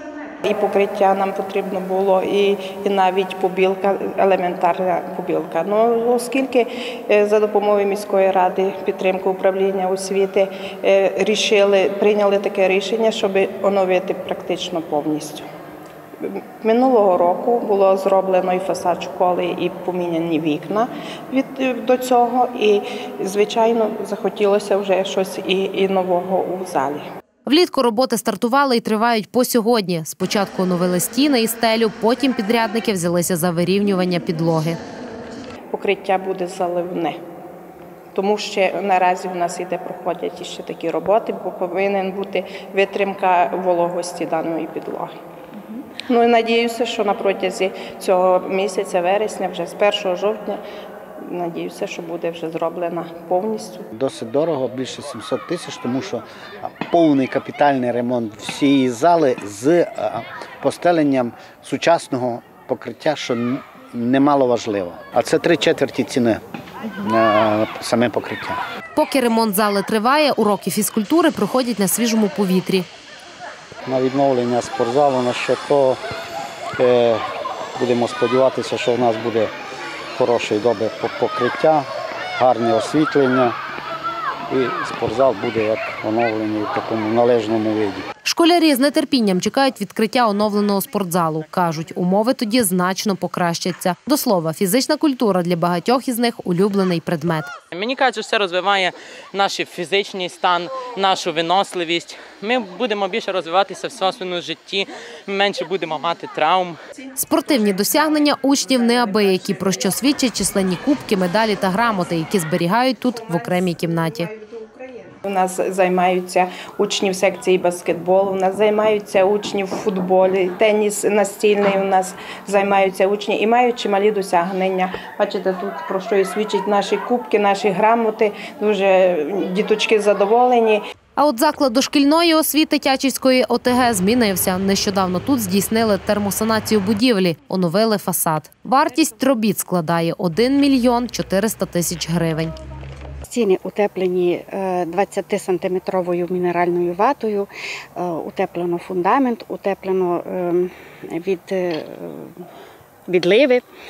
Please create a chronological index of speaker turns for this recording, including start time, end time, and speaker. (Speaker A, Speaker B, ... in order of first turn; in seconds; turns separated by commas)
Speaker A: 0.4-15.4, Speaker A: 16.2-27.0, Speaker B: 27.4-34.8, Speaker A: 35.7-37.2, Speaker A: 38.1-45.1, Speaker A: 45.7-50.6, Speaker A: 51.2-53.9, Speaker C: 53.9-66.4, Speaker C: 66.9-68.6, Speaker B: 68.9-72.9, Speaker C: 73.8-76.0, Speaker C: 76.8-77.2, Speaker C: 77.8-79.5, Speaker C: 80.1-83.5, Speaker C: 84.5-88.1, Speaker B: 88.2-97.5, Speaker D: 97.8-106.8, Speaker B: 107.1-114.3, Speaker A: 115.2-130.8, Speaker B: 131.2-142.5, Speaker E: 143.3-152.4, Speaker E: 153.1-153.6